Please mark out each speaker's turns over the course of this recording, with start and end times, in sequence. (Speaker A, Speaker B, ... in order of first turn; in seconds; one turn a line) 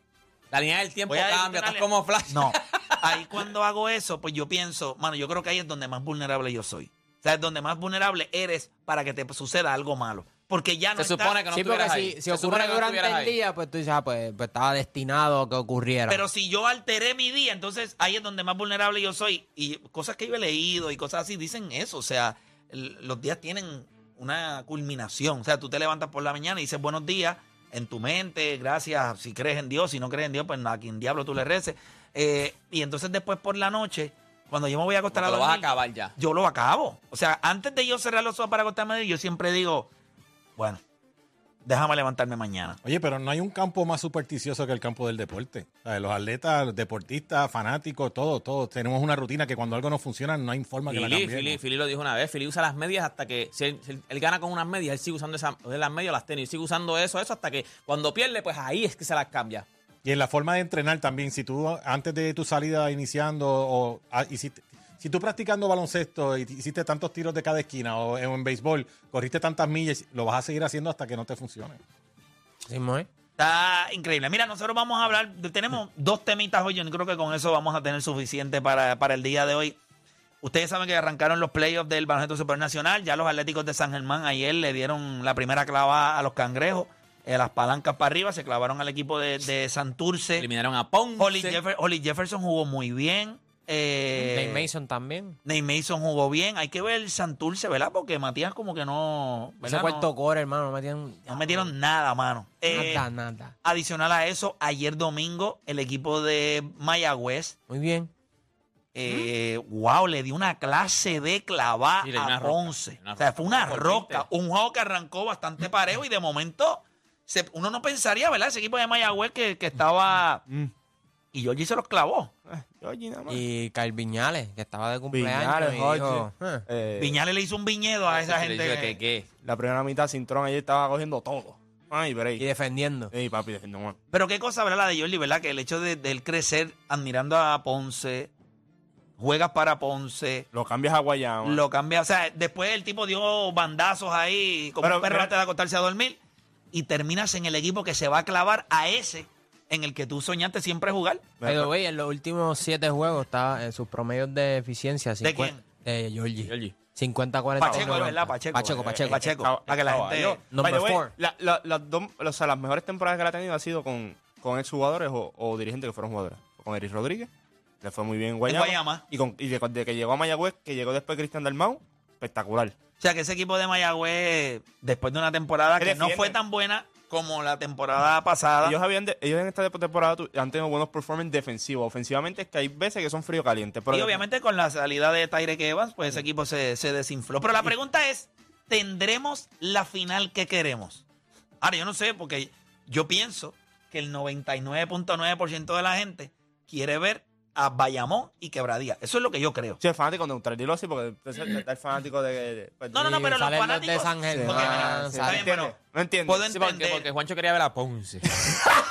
Speaker A: 0.5-3.5
Speaker B: 1.1-11.4
Speaker A: 11.0-13.3
Speaker C: 11.5-16.2
Speaker B: 16.1-39.9
Speaker A: 35.1-36.1
Speaker B: 40.6-40.8
Speaker B: 41.6-42.8
Speaker D: 42.8-51.6
Speaker A: 50.9-59.6
Speaker D: 60.0-71.8
Speaker C: 72.7-73.1
Speaker B: 73.4-79.8
Speaker B: 80.4-90.5
Speaker A: 90.4-91.6
Speaker B: 91.2-94.7
Speaker C: 94.3-95.4
Speaker B: 95.4-100.1
Speaker C: 99.6-101.7
Speaker B: 101.3-103.1
Speaker C: 102.7-103.5
Speaker B: 103.6-107.6
Speaker C: 107.7-108.1
Speaker B: 108.9-120.4
Speaker A: 112.0-114.2
Speaker B: 121.3-122.3
Speaker E: 122.5-123.4
Speaker C: 123.3-126.6
Speaker E: 125.1-127.2
Speaker B: 127.0-129.0
Speaker A: 128.1-129.2
Speaker E: 129.4-132.5
Speaker C: 132.4-133.1
Speaker E: 133.1-134.0
Speaker B: 134.1-138.3
Speaker B: 139.2-140.5
Speaker E: 140.5-141.6
Speaker B: 141.4-146.2
Speaker E: 144.8-145.3
Speaker B: 146.7-151.3
Speaker E: 151.4-151.7
Speaker C: 151.4-159.3
Speaker B: 155.2-155.6
Speaker A: 156.5-156.7
Speaker E: 157.6-167.3
Speaker B: 157.6-160.4
Speaker A: 159.7-160.2
Speaker C: 160.1-161.1
Speaker E: 167.8-172.8
Speaker B: 168.5-169.0
Speaker B: 173.0-178.8
Speaker E: 175.8-176.4
Speaker E: 178.6-184.2
Speaker B: 183.9-191.0
Speaker B: 191.6-199.8
Speaker E: 199.8-203.3
Speaker B: 202.9-205.7
Speaker C: 203.0-205.5
Speaker E: 204.3-206.4
Speaker B: 206.2-207.1
Speaker A: 206.5-208.7